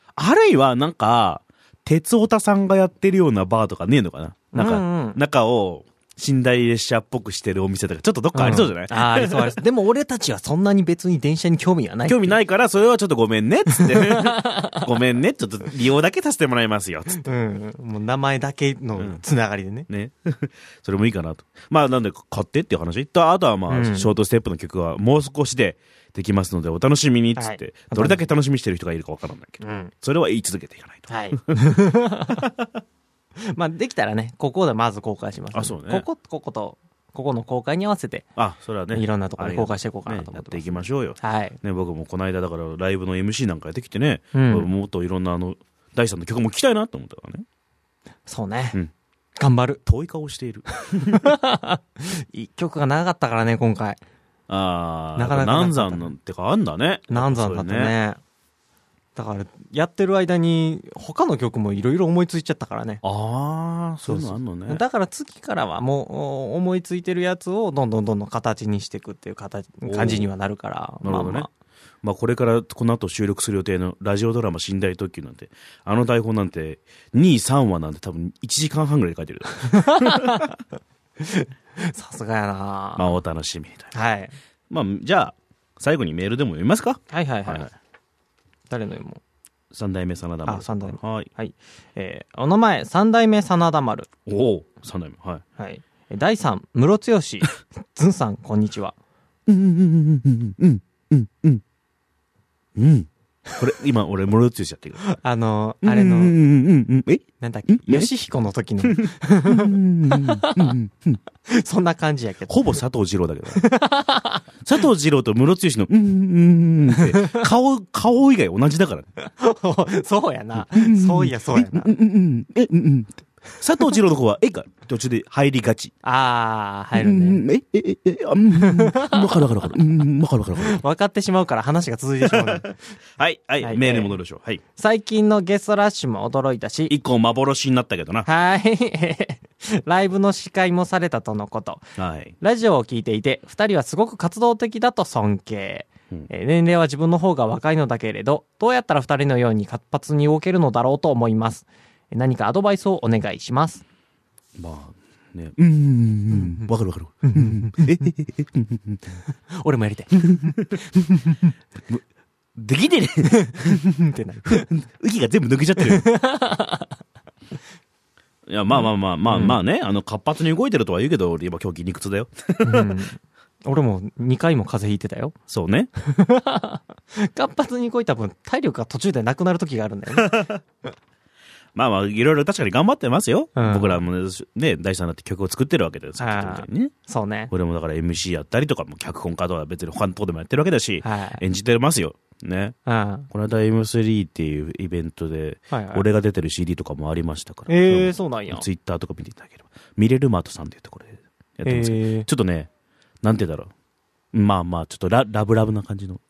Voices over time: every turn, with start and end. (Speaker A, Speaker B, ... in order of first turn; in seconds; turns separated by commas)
Speaker A: 0.1-9.6, Speaker B: 4.5-5.2, Speaker B: 8.3-12.4, Speaker A: 12.1-17.2, Speaker B: 13.7-14.8, Speaker B: 17.2-19.9, Speaker A: 19.9-31.4, Speaker B: 23.7-24.1, Speaker B: 27.4-28.2, Speaker B: 29.6-29.9, Speaker B: 31.1-32.5, Speaker A: 32.4-32.7, Speaker B: 33.5-38.3, Speaker A: 35.5-36.0, Speaker A: 38.4-47.4, Speaker B: 38.9-41.6, Speaker B: 44.3-44.7, Speaker B: 48.3-48.8, Speaker B: 49.4-49.8, Speaker A: 49.9-51.2, Speaker B: 51.0-54.0, Speaker A: 54.5-57.9, Speaker B: 55.1-56.1, Speaker B: 57.1-58.2, Speaker B: 59.1-63.0, Speaker A: 63.0-64.8, Speaker B: 64.0-71.5, Speaker A: 69.8-70.3, Speaker A: 71.0-71.5, Speaker A: 72.0-80.5, Speaker B: 79.7-80.5, Speaker B: 81.2-83.1, Speaker A: 83.0-83.9, Speaker B: 83.9-84.3, Speaker A: 84.7-87.7, Speaker B: 87.1-87.7, Speaker B: 88.7-89.2, Speaker A: 89.7-91.3, Speaker B: 90.5-94.1, Speaker A: 94.3-95.4, Speaker B: 95.6-98.9, Speaker A: 99.5-101.6, Speaker A: 102.8-105.0, Speaker B: 105.0-106.3, Speaker A: 105.8-108.1, Speaker B: 107.4-110.7, Speaker A: 108.8-111.2, Speaker B: 111.5-112.8, Speaker A: 112.5-113.6, Speaker B: 113.5-114.4, Speaker A: 114.6-119.1, Speaker B: 116.9-117.4, Speaker B: 119.2-121.9, Speaker A: 120.6-125.9, Speaker B: 126.0-127.4, Speaker A: 126.9-130.8, Speaker B: 128.5-129.3, Speaker B: 130.6-132.7, Speaker A: 132.2-134.6, Speaker B: 133.6-134.1, Speaker B: 134.8-136.9, Speaker A: 136.9-138.3, Speaker B: 138.2-141.9, Speaker A: 142.0-142.3, Speaker B: 142.4-153.8, Speaker A: 154.6-159.1, Speaker B: 156.3-156.7, Speaker B: 157.2-157.8, Speaker B: 159.6-161.5, Speaker A: 160.2-160.8, Speaker A: 162.6-163.8, Speaker B: 163.2-164.7, Speaker A: 164.5-166.1, Speaker B: 165.8-166.9, Speaker A: 168.5-172.9, Speaker B: 168.7-169.6, Speaker B: 172.6-175.3, Speaker A: 175.5-175.9, Speaker B: 176.0-180.5, Speaker A: 180.2-180.5, Speaker A: 181.7-186.9, Speaker B: 183.6-184.0, Speaker B: 186.2-187.5, Speaker A: 187.5-192.8, Speaker B: 191.0-191.4, Speaker B: 192.8-193.3, Speaker A: 193.3-202.7, Speaker B: 195.7-196.0, Speaker B: 197.7-198.6, Speaker B: 201.6-202.3, Speaker A: 203.2-203.7, Speaker A: 204.3-206.2